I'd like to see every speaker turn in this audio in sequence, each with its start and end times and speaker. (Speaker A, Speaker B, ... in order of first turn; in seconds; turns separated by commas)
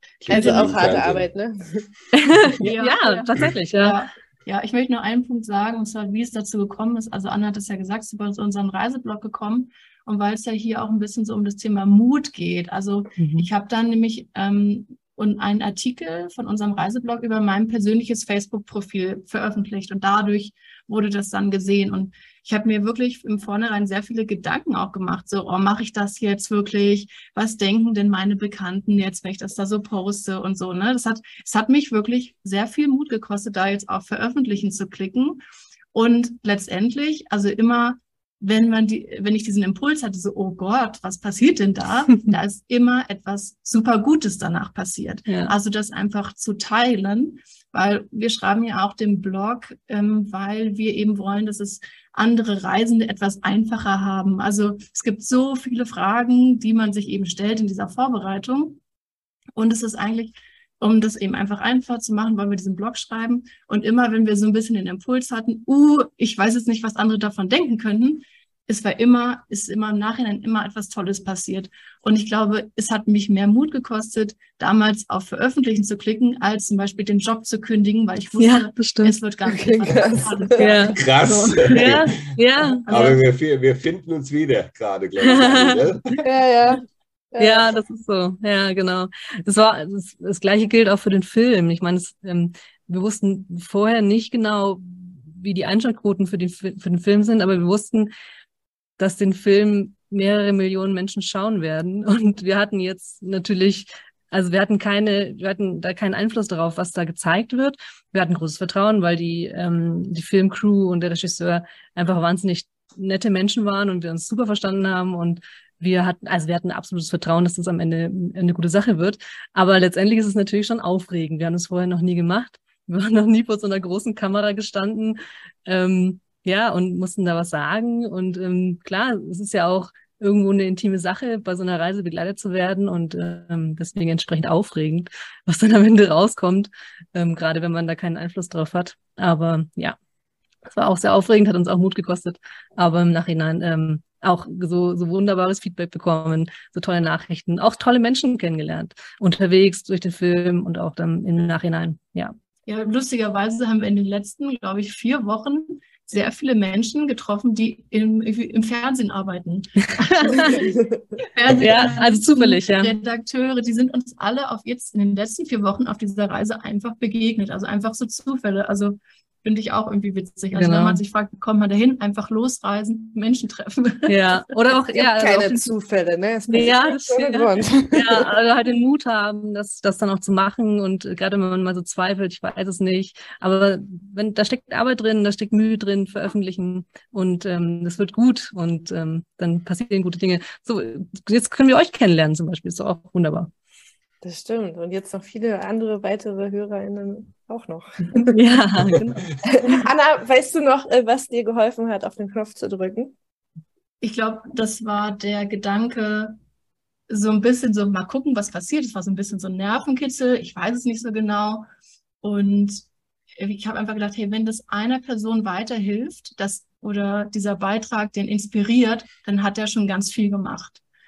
Speaker A: 0.2-1.3, Speaker B: 0.3-1.9, Speaker C: 2.1-4.0, Speaker D: 2.6-35.4, Speaker C: 13.2-13.5, Speaker D: 35.9-58.8, Speaker C: 45.3-45.5, Speaker D: 59.5-82.0, Speaker C: 78.4-79.1, Speaker B: 79.5-80.6, Speaker C: 80.6-81.0, Speaker A: 81.0-82.1, Speaker C: 81.7-82.8, Speaker D: 82.8-83.2, Speaker A: 82.9-86.2, Speaker C: 85.2-85.8, Speaker B: 86.2-87.7, Speaker C: 87.4-98.1, Speaker C: 99.0-140.0, Speaker C: 140.7-152.3, Speaker D: 152.7-174.2, Speaker C: 159.8-160.6, Speaker B: 160.5-161.1, Speaker C: 161.5-162.9, Speaker C: 170.5-171.0, Speaker C: 174.1-175.7, Speaker B: 174.9-178.3, Speaker C: 176.5-193.5, Speaker B: 194.2-198.4, Speaker C: 198.1-199.1, Speaker B: 198.9-203.1, Speaker D: 204.0-206.4, Speaker D: 207.1-211.7, Speaker D: 212.2-212.8, Speaker D: 213.4-220.8